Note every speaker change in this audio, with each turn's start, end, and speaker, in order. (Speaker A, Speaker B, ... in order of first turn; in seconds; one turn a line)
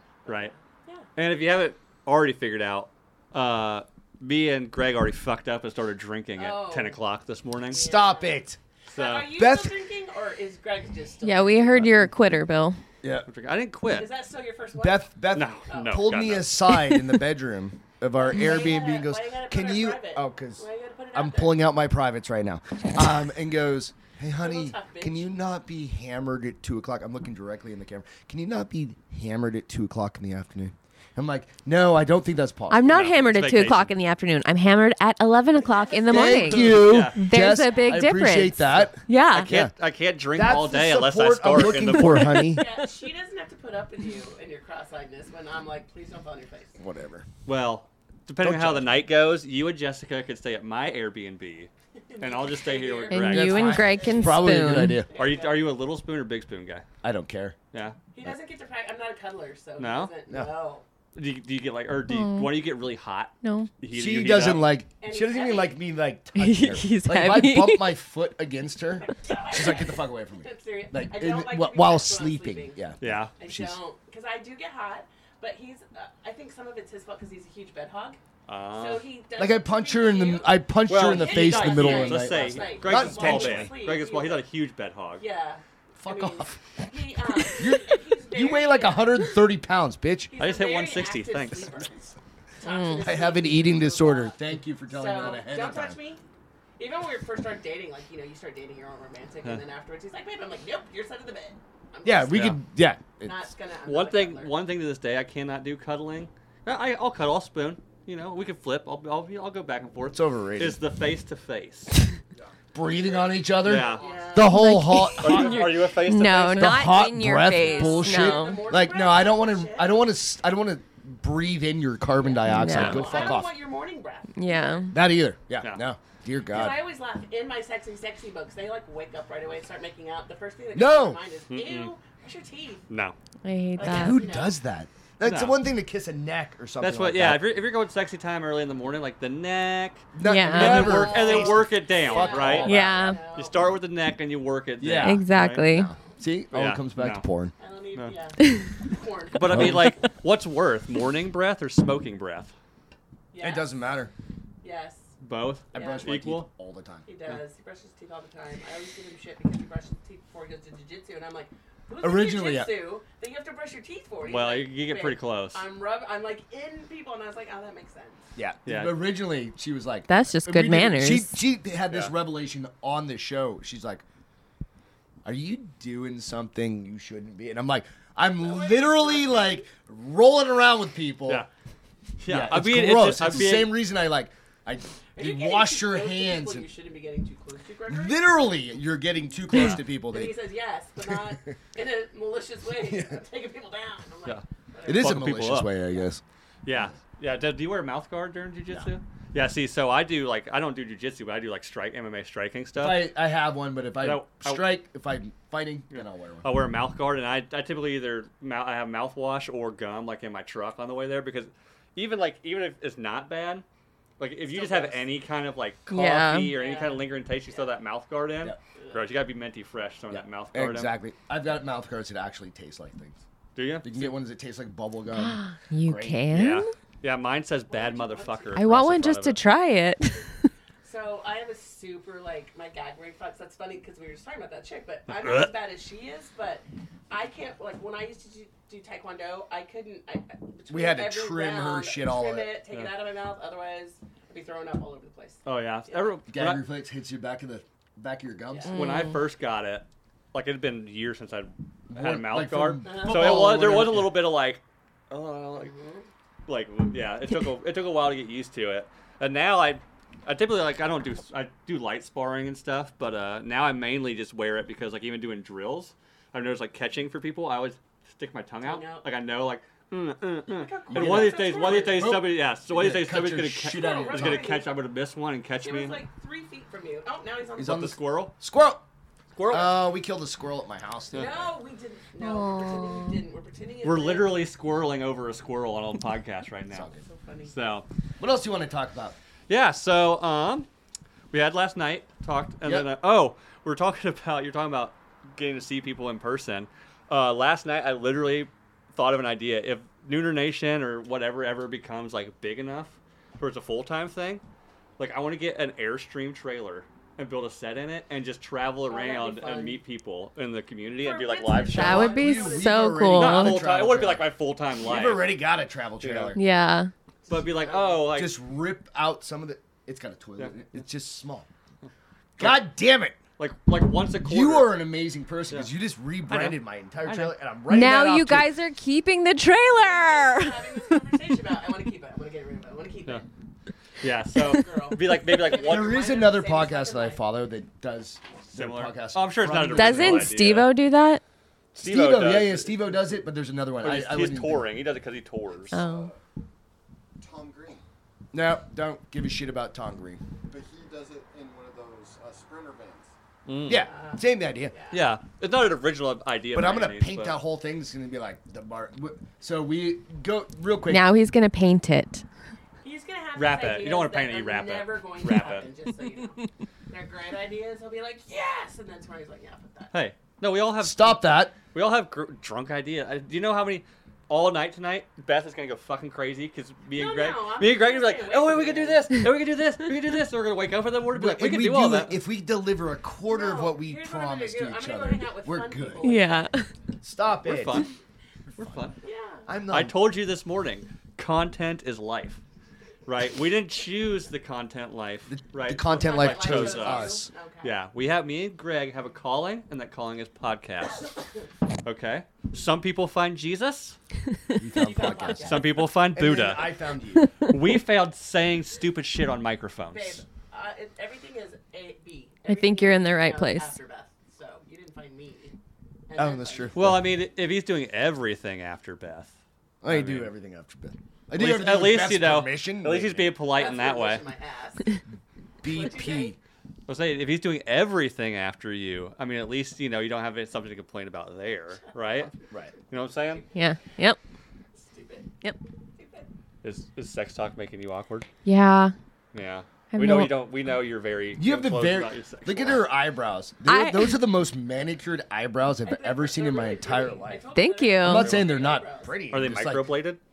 Speaker A: 0.2-1.1
Speaker B: 0.3-0.5
Speaker B: 1.2-7.9
Speaker A: 6.3-7.0
Speaker A: 7.6-11.9
Speaker C: 7.8-8.6
Speaker B: 8.9-9.3
Speaker C: 9.4-9.8
Speaker D: 11.2-12.8
Speaker C: 13.0-13.3
Speaker B: 13.3-14.1
Speaker A: 13.9-16.1
Speaker C: 14.8-33.0
Speaker B: 15.3-16.6
Speaker A: 18.1-21.6
Speaker A: 24.4-25.3
Speaker D: 32.7-39.5
Speaker B: 32.9-33.9
Speaker A: 35.6-36.4
Speaker C: 36.1-39.7
Speaker B: 36.3-37.2
Speaker A: 37.6-38.0
Speaker B: 39.3-42.5
Speaker C: 40.3-42.7
Speaker D: 41.9-42.5
Speaker A: 42.5-46.8
Speaker C: 46.8-47.3
Speaker B: 47.5-53.9
Speaker C: 48.4-49.0
Speaker A: 52.1-54.4
Speaker D: 53.1-55.0
Speaker C: 53.3-55.1
Speaker A: 55.0-55.7
Speaker B: 55.1-56.9
Speaker C: 57.0-57.6
Speaker A: 58.1-60.8
Speaker B: 59.8-60.1
Speaker B: 61.1-64.8
Speaker D: 62.1-62.6
Speaker D: 63.4-63.7
Speaker C: 63.9-73.8
Speaker A: 65.0-65.8
Speaker D: 66.3-68.0
Speaker A: 69.0-72.8
Speaker B: 73.0-73.3
Speaker A: 73.4-78.2
Speaker B: 78.5-79.0
Speaker A: 78.7-84.5
Speaker C: 79.4-83.8
Speaker B: 80.9-85.3
Speaker A: 85.2-89.3
Speaker C: 86.0-86.6
Speaker C: 87.6-90.3
Speaker A: 90.3-96.2
Speaker B: 90.4-91.7
Speaker D: 92.6-93.1
Speaker C: 93.0-96.0
Speaker A: 96.8-102.6
Speaker C: 102.0-103.5
Speaker B: 102.3-102.6
Speaker A: 103.2-104.6
Speaker B: 103.9-111.9
Speaker C: 110.1-110.8
Speaker E: 112.3-114.4
Speaker C: 112.7-115.8
Speaker B: 113.6-114.0
Speaker A: 113.9-114.6
Speaker D: 114.4-118.7
Speaker B: 115.2-116.9
Speaker C: 116.6-123.5
Speaker A: 117.5-120.1
Speaker A: 122.2-124.8
Speaker D: 122.4-123.3
Speaker B: 122.7-123.2
Speaker D: 124.3-124.9
Speaker C: 124.9-126.8
Speaker A: 126.5-132.8
Speaker C: 130.7-131.2
Speaker B: 131.5-131.9
Speaker B: 132.9-133.2
Speaker D: 133.4-134.2
Speaker A: 133.8-134.6
Speaker C: 133.8-137.5
Speaker B: 135.2-135.6
Speaker B: 136.8-145.7
Speaker C: 140.2-142.9
Speaker D: 140.2-141.0
Speaker A: 140.8-143.7
Speaker D: 142.5-143.2
Speaker C: 144.8-147.5
Speaker D: 145.0-145.9
Speaker B: 146.5-147.3
Speaker A: 147.6-149.7
Speaker B: 149.4-152.5
Speaker C: 149.5-149.9
Speaker A: 153.3-153.7
Speaker C: 153.4-154.1
Speaker A: 154.6-155.1
Speaker B: 155.2-156.5
Speaker A: 155.7-156.1
Speaker C: 155.7-157.1
Speaker A: 157.1-168.3
Speaker C: 162.0-162.7
Speaker B: 164.2-165.6
Speaker C: 168.4-174.0
Speaker B: 168.7-169.0
Speaker D: 170.1-171.4
Speaker C: 175.2-181.5
Speaker A: 178.4-179.7
Speaker B: 182.2-183.8
Speaker C: 182.3-186.7
Speaker A: 185.2-188.3
Speaker C: 187.9-190.4
Speaker A: 190.0-195.2
Speaker C: 191.1-191.5
Speaker C: 192.8-193.2
Speaker B: 194.2-195.7
Speaker C: 194.9-196.2
Speaker B: 196.7-203.1
Speaker C: 202.8-206.5
Speaker B: 204.0-204.7
Speaker B: 205.9-213.7
Speaker B: 214.2-220.9
Speaker A: 214.4-215.2
Speaker D: 215.9-216.5
Speaker A: 216.5-217.8
Speaker A: 218.8-219.1
Speaker C: 220.1-223.2
Speaker B: 223.6-224.2
Speaker C: 223.8-226.2
Speaker D: 225.1-226.7
Speaker B: 226.3-229.4
Speaker A: 227.7-228.6
Speaker D: 228.5-230.3
Speaker A: 230.8-246.2
Speaker B: 235.1-235.5
Speaker C: 240.7-242.6
Speaker B: 245.4-246.6
Speaker C: 246.3-248.7
Speaker A: 248.5-248.8
Speaker D: 248.7-249.2
Speaker B: 248.7-255.7
Speaker C: 251.9-254.3
Speaker A: 252.8-253.6
Speaker A: 255.5-256.1
Speaker B: 256.5-276.0
Speaker A: 268.6-269.1
Speaker A: 270.5-272.2
Speaker C: 270.9-274.6
Speaker A: 273.7-274.8
Speaker A: 275.6-277.8
Speaker C: 277.6-278.8
Speaker B: 277.6-278.4
Speaker B: 279.3-279.8
Speaker C: 279.5-281.5
Speaker A: 281.1-284.5
Speaker D: 282.2-283.2
Speaker B: 283.8-286.9
Speaker C: 286.7-287.0
Speaker A: 286.9-287.5
Speaker B: 287.5-287.9
Speaker C: 288.2-289.2
Speaker B: 289.5-290.7
Speaker B: 291.3-304.4
Speaker C: 292.6-292.9
Speaker B: 305.0-312.2
Speaker A: 308.9-309.8
Speaker A: 310.9-312.9
Speaker D: 311.7-313.6
Speaker C: 311.9-316.4
Speaker B: 313.1-315.4
Speaker B: 316.0-316.4
Speaker D: 316.3-316.9
Speaker B: 317.3-318.4
Speaker A: 317.3-318.0
Speaker C: 318.0-321.5
Speaker C: 322.4-323.2
Speaker B: 322.4-322.6
Speaker B: 323.4-324.8
Speaker C: 324.2-328.5
Speaker B: 326.3-327.3
Speaker D: 327.7-331.1
Speaker A: 329.8-333.3
Speaker B: 334.0-336.2
Speaker A: 334.5-337.2
Speaker C: 335.5-340.4
Speaker B: 338.5-340.7
Speaker D: 339.7-341.2
Speaker B: 341.8-343.0
Speaker C: 341.8-344.7
Speaker B: 343.8-345.8
Speaker D: 345.7-346.1
Speaker E: 345.7-346.2
Speaker E: 347.2-347.8
Speaker C: 348.3-350.2
Speaker E: 350.5-353.1
Speaker B: 353.5-353.9
Speaker C: 353.7-354.7
Speaker A: 353.7-355.1
Speaker B: 354.9-357.4
Speaker C: 356.5-361.1
Speaker D: 360.9-362.2
Speaker A: 362.8-369.9
Speaker B: 363.4-365.7
Speaker B: 369.9-382.2
Speaker C: 370.8-371.6
Speaker A: 376.9-379.1
Speaker C: 381.1-386.1
Speaker A: 383.2-386.5
Speaker D: 386.0-386.7
Speaker C: 387.0-387.9
Speaker B: 387.4-387.9
Speaker B: 388.5-389.0
Speaker A: 389.0-389.4
Speaker C: 389.5-390.0
Speaker B: 389.7-392.4
Speaker B: 393.1-401.1
Speaker C: 395.3-397.3
Speaker A: 395.9-397.8
Speaker B: 401.8-404.0
Speaker C: 404.6-407.3
Speaker A: 404.7-405.9
Speaker B: 405.1-406.7
Speaker B: 407.5-410.2
Speaker A: 409.9-415.6
Speaker D: 412.5-413.7
Speaker A: 416.1-416.8
Speaker C: 416.2-417.1
Speaker B: 416.7-419.3
Speaker C: 419.8-423.4
Speaker B: 419.9-420.3
Speaker B: 421.3-424.3
Speaker A: 423.5-424.9
Speaker C: 425.6-426.4
Speaker A: 425.7-426.4
Speaker B: 426.9-432.3
Speaker A: 432.0-432.3
Speaker B: 432.9-433.4
Speaker A: 433.0-433.9
Speaker D: 433.6-434.2
Speaker A: 434.7-435.3
Speaker A: 436.0-436.3
Speaker B: 436.6-438.3
Speaker D: 438.4-438.9
Speaker B: 439.3-442.9
Speaker D: 439.9-440.4
Speaker C: 441.4-447.5
Speaker D: 443.6-444.2
Speaker A: 445.8-449.2
Speaker D: 447.5-448.4
Speaker C: 448.0-450.0
Speaker B: 448.1-448.5
Speaker B: 449.3-450.2